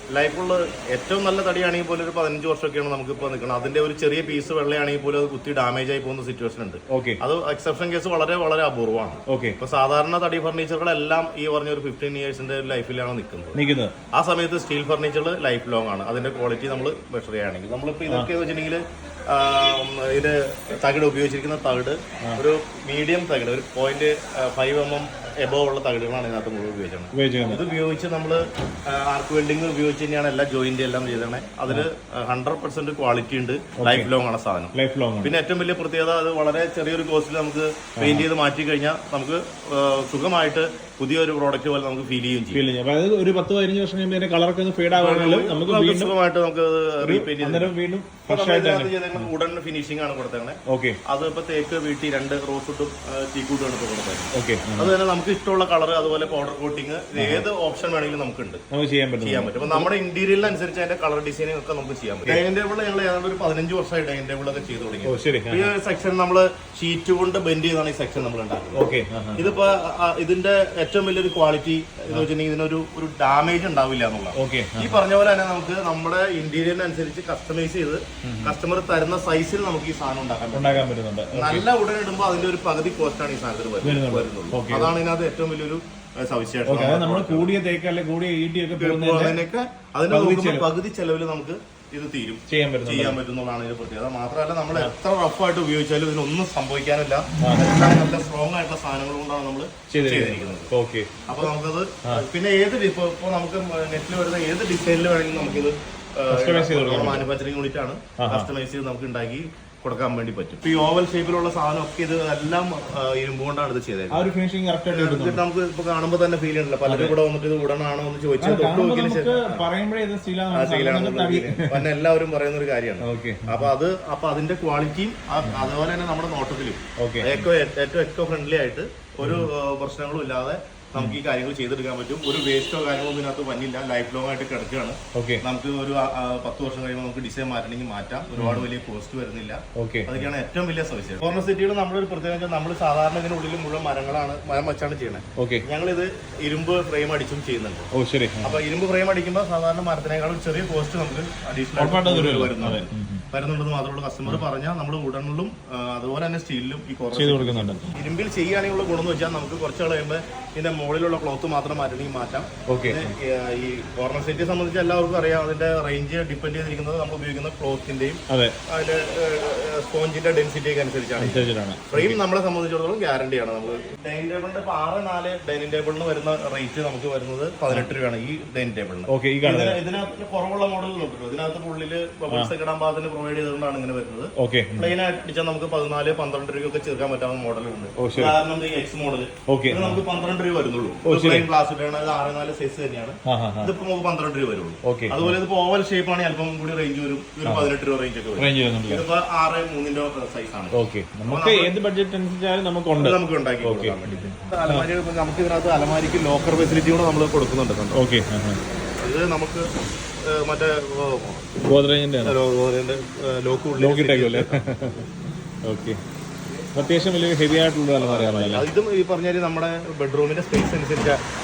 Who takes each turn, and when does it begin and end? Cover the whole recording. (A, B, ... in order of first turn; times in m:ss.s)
0:00.1-0:13.6 A
0:06.9-0:07.2 B
0:09.3-0:09.6 B
0:13.6-0:14.0 B
0:14.1-0:42.6 A
0:27.1-0:27.6 B
0:33.8-0:34.1 B
0:34.7-0:35.3 B
0:38.0-0:38.3 B
0:42.5-0:46.2 B
0:44.9-0:47.7 A
0:47.0-0:49.3 B
0:48.3-0:58.6 A
0:50.7-0:51.0 B
0:54.3-0:55.0 B
0:57.2-0:57.4 B
0:58.7-0:59.9 B
0:59.2-1:08.8 A
1:05.0-1:05.7 B
1:08.8-1:09.4 B
1:09.4-1:27.5 A
1:14.4-1:15.0 B
1:18.2-1:18.6 B
1:20.5-1:21.6 B
1:23.8-1:24.9 B
1:26.7-1:29.4 B
1:28.8-1:40.7 A
1:30.1-1:30.7 B
1:32.5-1:33.2 B
1:39.9-1:41.5 B
1:41.3-1:54.2 A
1:46.3-1:47.2 B
1:48.2-1:48.5 B
1:54.1-1:55.4 B
1:54.9-1:59.6 A
1:56.9-1:57.2 B
1:58.4-2:01.8 B
2:00.5-2:27.9 A
2:03.0-2:03.7 B
2:07.0-2:07.5 B
2:09.2-2:09.5 B
2:15.2-2:15.4 B
2:18.4-2:18.7 B
2:19.8-2:20.3 B
2:25.4-2:25.6 B
2:27.9-2:28.6 B
2:28.4-3:20.8 A
2:31.8-2:33.2 B
2:37.1-2:38.0 B
2:42.7-2:43.1 B
2:48.3-2:48.6 B
2:51.2-2:52.2 B
2:59.1-2:59.8 B
3:04.4-3:04.9 B
3:08.0-3:08.4 B
3:09.5-3:10.0 B
3:11.0-3:11.5 B
3:13.3-3:13.7 B
3:14.8-3:15.4 B
3:17.4-3:17.7 B
3:18.4-3:19.0 B
3:20.7-3:24.9 B
3:21.3-3:21.7 A
3:23.0-3:28.0 A
3:27.9-3:28.6 B
3:29.0-3:29.7 A
3:30.2-3:31.6 A
3:31.6-3:32.4 B
3:32.2-3:34.8 A
3:33.8-3:35.1 B
3:35.6-3:36.0 B
3:36.8-3:38.7 B
3:38.0-3:41.2 A